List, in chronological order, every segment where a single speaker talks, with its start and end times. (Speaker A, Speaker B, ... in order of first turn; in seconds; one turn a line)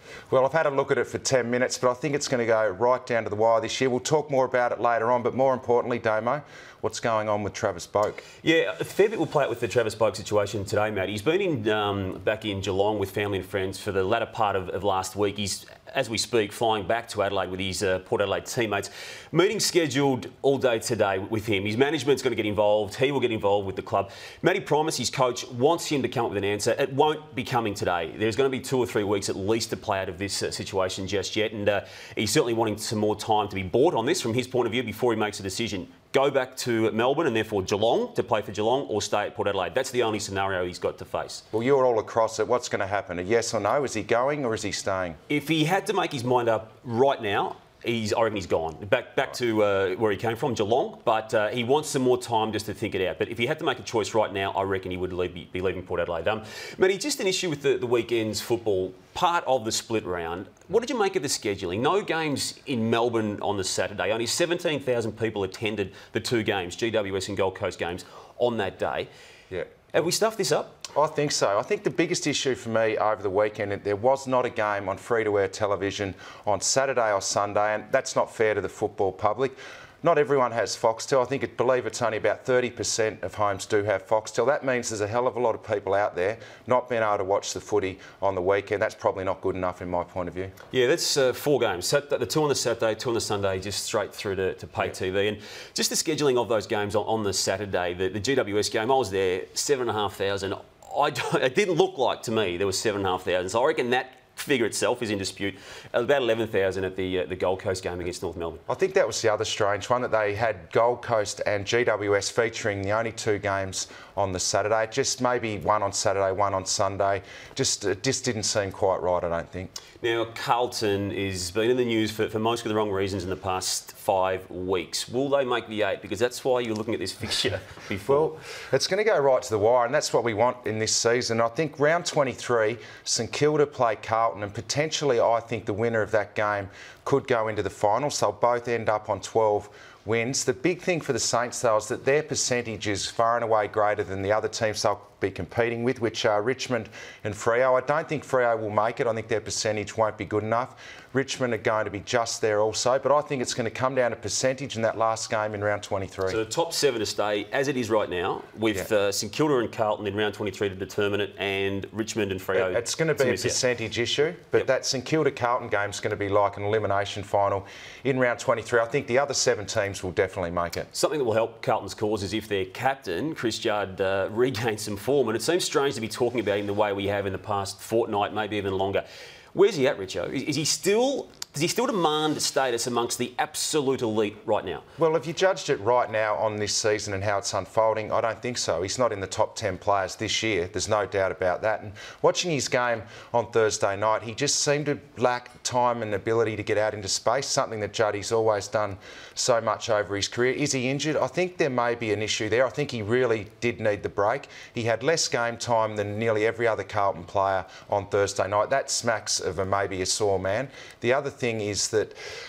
Speaker A: 0.3-8.2
Speaker B: 8.4-41.4
Speaker A: 41.5-45.2
Speaker B: 45.3-69.1
Speaker B: 69.9-70.8
Speaker A: 70.9-90.5
Speaker B: 90.7-108.6
Speaker A: 108.7-119.7
Speaker B: 120.0-128.3
Speaker A: 128.1-156.4
Speaker B: 156.3-163.6
Speaker A: 162.5-170.9
Speaker B: 170.9-184.8
Speaker A: 185.0-212.1